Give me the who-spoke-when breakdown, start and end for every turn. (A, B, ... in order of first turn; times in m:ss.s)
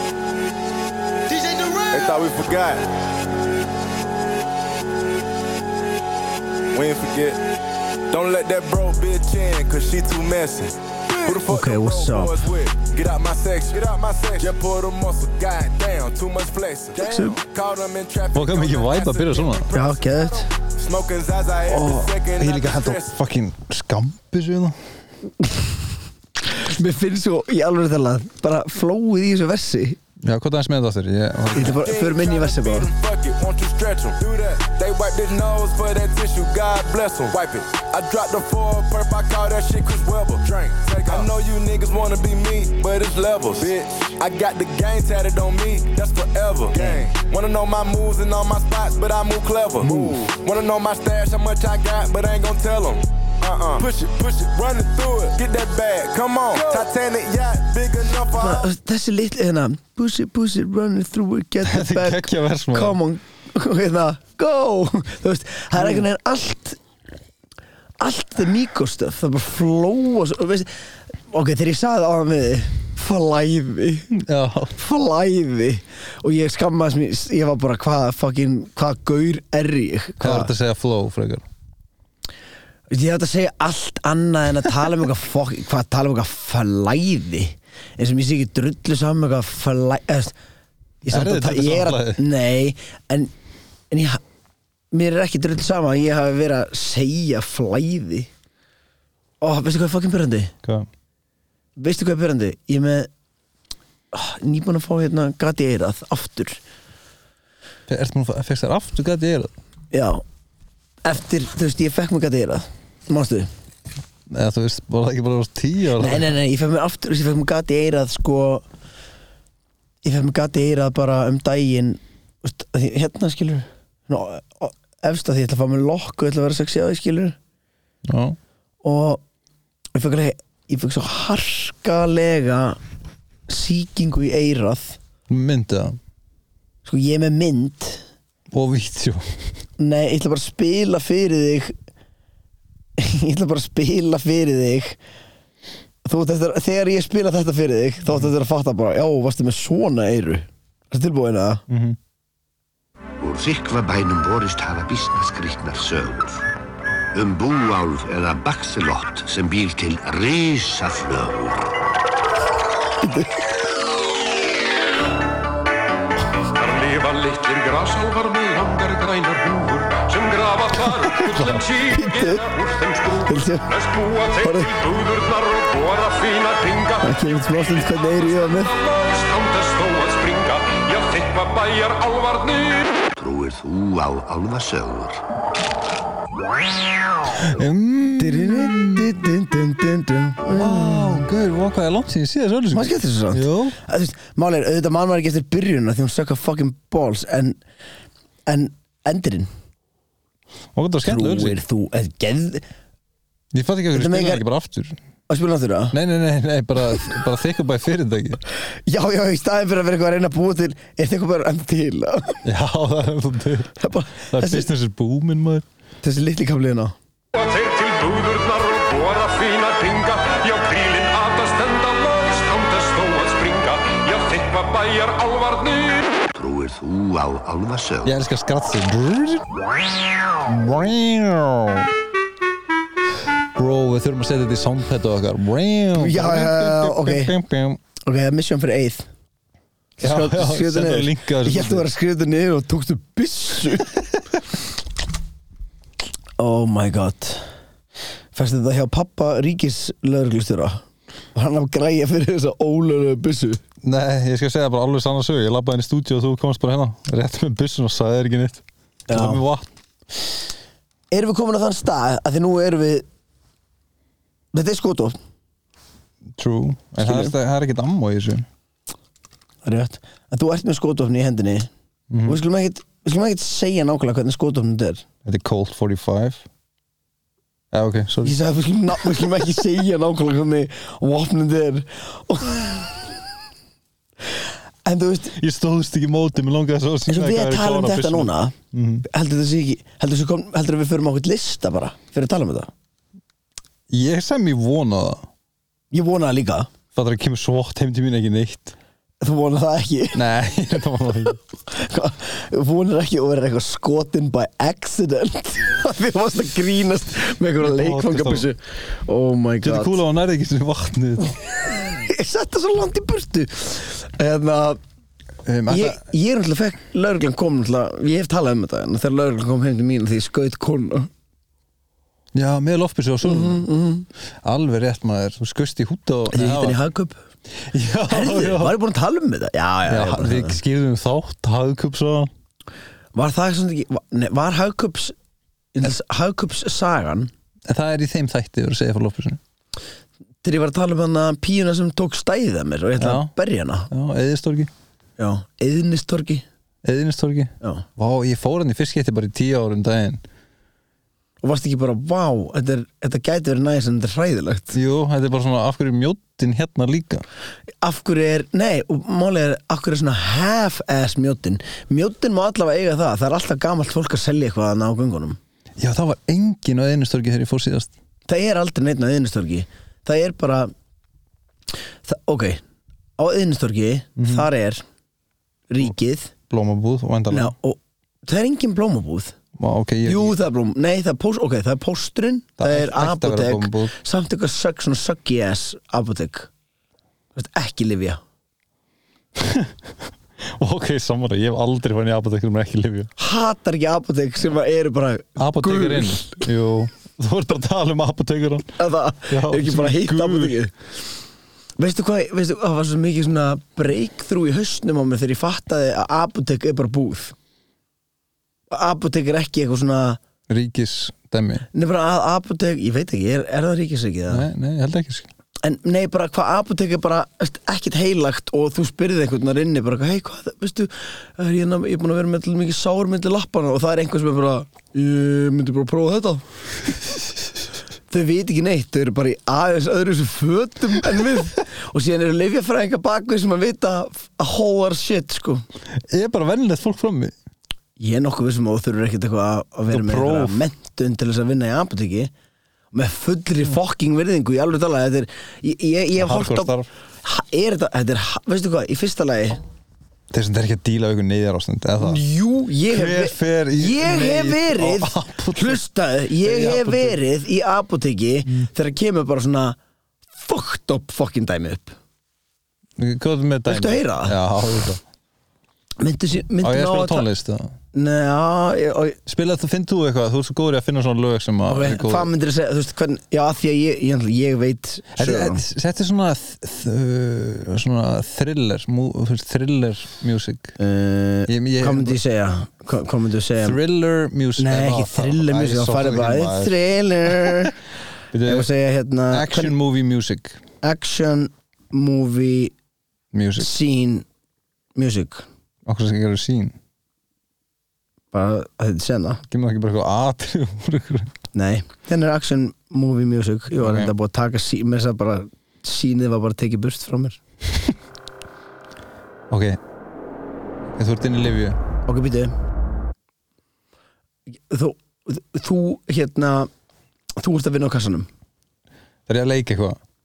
0:01.9-0:02.9 A
0:06.7-0:07.4 A
0:08.1-0:23.1 A
0:11.3-0:12.4 B
0:17.0-0:17.4 B
0:18.3-0:19.7 C
0:19.7-0:20.5 B
0:21.7-0:22.1 B
0:22.4-0:24.8 C
0:26.5-0:30.0 B
0:30.2-0:31.8 C
0:31.5-0:32.9 B
0:31.5-0:58.7 A
0:46.7-0:47.1 B
0:49.8-0:50.2 B
0:58.3-1:06.8 B
1:01.6-1:03.0 C
1:05.8-1:06.1 C
1:08.0-1:10.7 B
1:11.3-1:14.1 B
1:14.1-1:14.7 C
1:14.7-1:20.5 B
1:20.2-1:21.4 C
1:22.9-1:30.3 B
1:31.0-1:33.3 B
1:31.1-1:32.2 C
1:33.9-1:34.2 B
1:34.9-1:38.3 B
1:39.4-1:40.5 B
1:41.8-1:43.1 B
1:44.1-1:46.6 B
1:47.9-1:49.5 C
1:49.9-1:50.2 B
1:51.0-1:53.5 B
1:54.3-1:56.3 C
1:56.0-1:58.6 B
2:00.0-2:07.4 B
2:08.0-2:08.4 C
2:08.8-2:09.2 B
2:09.9-2:12.8 B
2:13.5-2:15.0 B
2:15.3-2:16.0 C
2:16.8-2:18.0 B
2:18.5-2:19.4 C
2:19.8-2:21.7 B
2:23.0-2:25.0 B
2:26.0-2:31.6 B
2:31.7-2:32.0 C
2:33.2-2:36.4 D
2:37.1-2:41.7 D
2:43.0-2:43.4 B
2:46.6-3:03.0 E
2:50.9-2:51.6 C
2:51.8-2:52.4 B
2:53.2-2:53.7 B
2:54.4-2:54.7 B
2:57.0-2:58.7 B
3:03.2-3:05.2 D
3:07.3-3:09.1 C
3:08.2-3:11.2 B
3:10.5-3:13.8 C
3:12.7-3:17.6 B
3:18.5-3:19.5 B
3:20.7-3:21.6 C
3:21.0-3:22.6 B
3:23.5-3:25.0 C
3:23.9-3:24.4 B
3:25.3-3:26.0 B
3:25.9-3:28.4 C
3:28.9-3:32.4 B
3:32.4-3:33.8 C
3:33.8-3:34.7 B
3:34.3-3:35.6 C
3:36.0-3:36.9 B
3:37.3-3:46.1 E
3:46.3-3:48.2 D
3:48.0-3:49.5 C
3:50.4-3:51.9 C
3:53.5-3:57.8 C
3:55.9-3:57.3 B
3:58.0-3:59.1 B
4:00.0-4:03.9 B
4:00.0-4:01.9 C
4:06.4-4:07.5 B
4:08.3-4:10.8 B
4:11.3-4:13.6 B
4:13.8-4:19.7 C
4:19.1-4:19.4 B
4:21.1-4:23.0 B
4:24.5-4:25.2 B
4:26.4-4:28.4 C
4:27.0-4:27.3 B
4:29.6-4:31.7 B
4:32.1-4:32.4 C
4:32.2-4:35.0 B
4:35.2-4:36.4 C
4:37.7-4:38.4 C
4:38.2-4:43.0 B
4:44.8-4:45.4 B
4:45.4-4:49.0 C
4:47.1-4:52.7 B
4:53.9-4:55.3 C
4:55.9-4:56.7 B
4:56.9-4:58.7 C
4:59.2-5:00.2 B
5:00.1-5:01.4 C
5:01.7-5:10.0 B
5:07.6-5:08.4 C
5:09.6-5:11.4 C
5:11.8-5:14.8 B
5:15.4-5:16.0 C
5:15.7-5:21.1 B
5:22.3-5:23.7 C
5:23.2-5:24.1 B
5:24.4-5:26.8 C
5:26.3-5:27.2 B
5:27.6-5:28.8 C
5:28.1-5:30.6 B
5:29.9-5:32.3 C
5:33.1-5:35.1 B
5:35.7-5:37.3 B
5:37.7-5:39.4 C
5:40.4-5:43.9 B
5:43.0-5:43.3 C
5:43.9-5:44.7 C
5:45.2-5:46.4 B
5:46.8-5:50.2 C
5:51.4-5:54.8 B
5:54.7-5:57.2 C
5:57.8-6:05.4 B
6:05.8-6:07.9 C
6:08.3-6:10.7 B
6:12.0-6:12.6 B
6:13.2-6:14.8 B
6:14.2-6:14.5 C
6:15.7-6:16.3 B
6:16.5-6:17.5 C
6:17.3-6:19.4 B
6:19.6-6:20.4 C
6:20.0-6:26.5 B
6:22.6-6:23.9 C
6:27.3-6:28.2 B
6:29.4-6:29.7 C
6:30.4-6:33.1 C
6:33.2-6:36.4 B
6:35.4-6:38.8 C
6:38.8-6:40.7 B
6:39.3-6:40.6 C
6:41.8-6:47.3 B
6:48.7-6:50.2 B
6:50.5-6:51.7 C
6:51.7-6:54.5 B
6:54.3-6:55.3 C
6:55.6-7:06.4 B
7:08.1-7:15.6 B
7:16.0-7:17.3 C
7:18.0-7:22.3 B
7:19.9-7:20.6 C
7:22.9-7:26.7 B
7:26.2-7:26.9 C
7:27.2-7:29.6 B
7:30.3-7:32.2 C
7:32.0-7:39.8 B
7:32.9-7:35.8 C
7:36.4-7:37.2 C
7:40.4-7:42.0 B
7:43.0-7:45.0 C
7:43.7-7:44.4 B
7:46.0-7:47.3 B
7:46.6-7:47.7 C
7:47.9-7:49.2 B
7:49.3-7:52.3 C
7:51.7-7:55.6 B
7:55.2-8:00.8 C
8:00.8-8:03.8 B
8:01.5-8:02.2 C
8:03.6-8:06.7 C
8:04.6-8:07.7 B
8:07.3-8:07.7 C
8:08.3-8:08.7 C
8:08.4-8:09.7 B
8:09.3-8:10.6 C
8:10.8-8:12.7 B
8:13.3-8:13.7 C
8:13.6-8:14.2 B
8:14.9-8:15.4 B
8:15.8-8:16.8 C
8:18.3-8:19.4 B
8:19.5-8:21.3 C
8:21.5-8:27.4 B
8:23.8-8:24.1 C
8:29.5-8:29.8 C
8:31.0-8:31.8 C
8:32.1-8:32.5 B
8:34.7-8:36.7 B
8:37.4-8:38.3 B
8:39.3-8:40.0 C